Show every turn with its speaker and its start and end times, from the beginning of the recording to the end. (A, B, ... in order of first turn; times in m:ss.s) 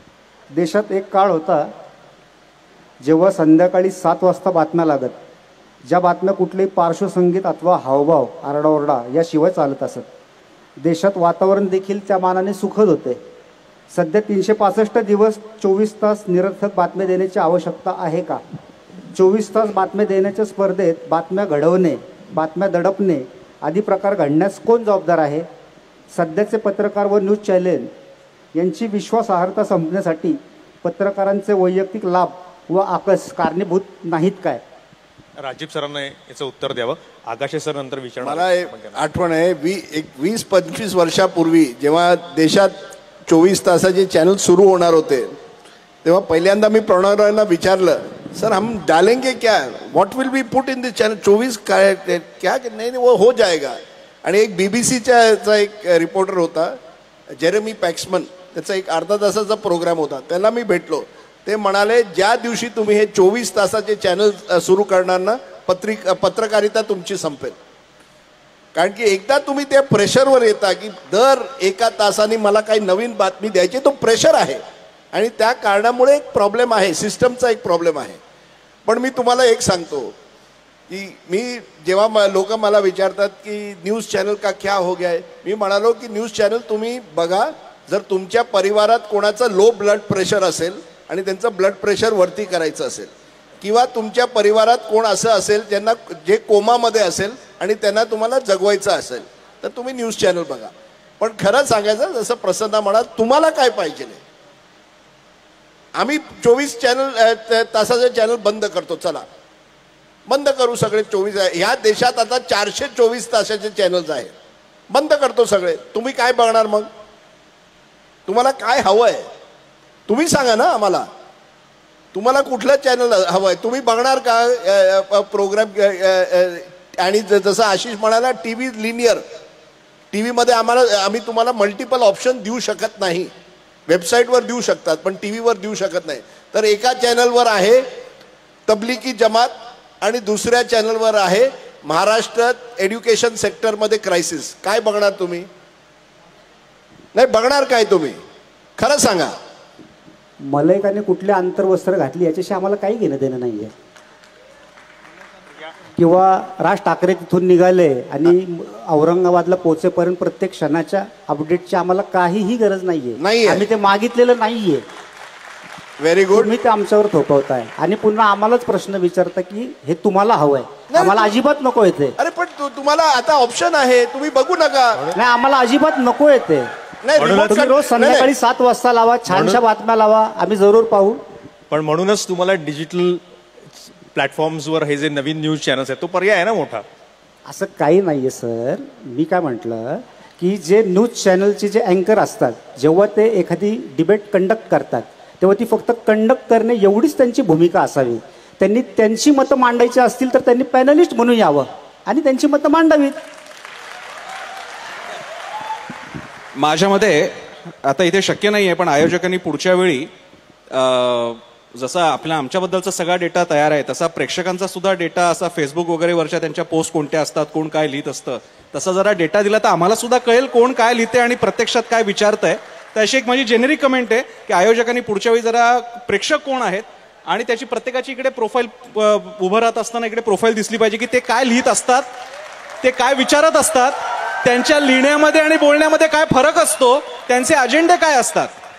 0:00.5-0:01.7 A
0:03.0-0:05.1 A
0:05.8-0:10.1 A
0:10.8-0:13.2 A
0:13.9-0:18.4 A
0:19.1-0:25.4 A
0:26.1-0:27.9 A
0:28.5-0:34.6 A
0:35.4-0:39.0 B
0:38.2-0:42.7 C
0:43.3-0:45.3 C
0:46.0-0:56.8 C
0:57.4-1:07.6 C
1:08.7-1:14.6 C
1:15.1-1:18.2 C
1:18.8-1:20.1 C
1:20.9-1:44.2 C
1:45.9-1:49.2 C
1:50.3-1:54.3 C
1:54.9-1:56.9 C
1:58.3-1:59.2 C
2:00.1-2:01.0 C
2:02.1-2:09.2 C
2:10.1-2:13.3 C
2:13.9-2:17.8 C
2:18.7-2:25.5 C
2:27.1-2:28.2 C
2:28.8-2:29.3 C
2:30.5-2:33.7 A
2:36.0-2:44.8 A
2:43.2-2:43.6 C
2:46.0-2:46.5 C
2:46.3-2:52.2 A
2:50.9-2:51.3 C
2:52.2-2:55.1 C
2:55.1-2:56.7 A
2:57.0-2:58.3 C
2:57.2-2:57.7 B
2:57.5-3:01.2 A
2:59.3-2:59.6 B
3:01.7-3:03.2 B
3:04.1-3:06.8 B
3:07.5-3:23.2 A
3:26.5-3:30.1 D
3:30.7-3:52.0 D
3:52.8-3:58.5 D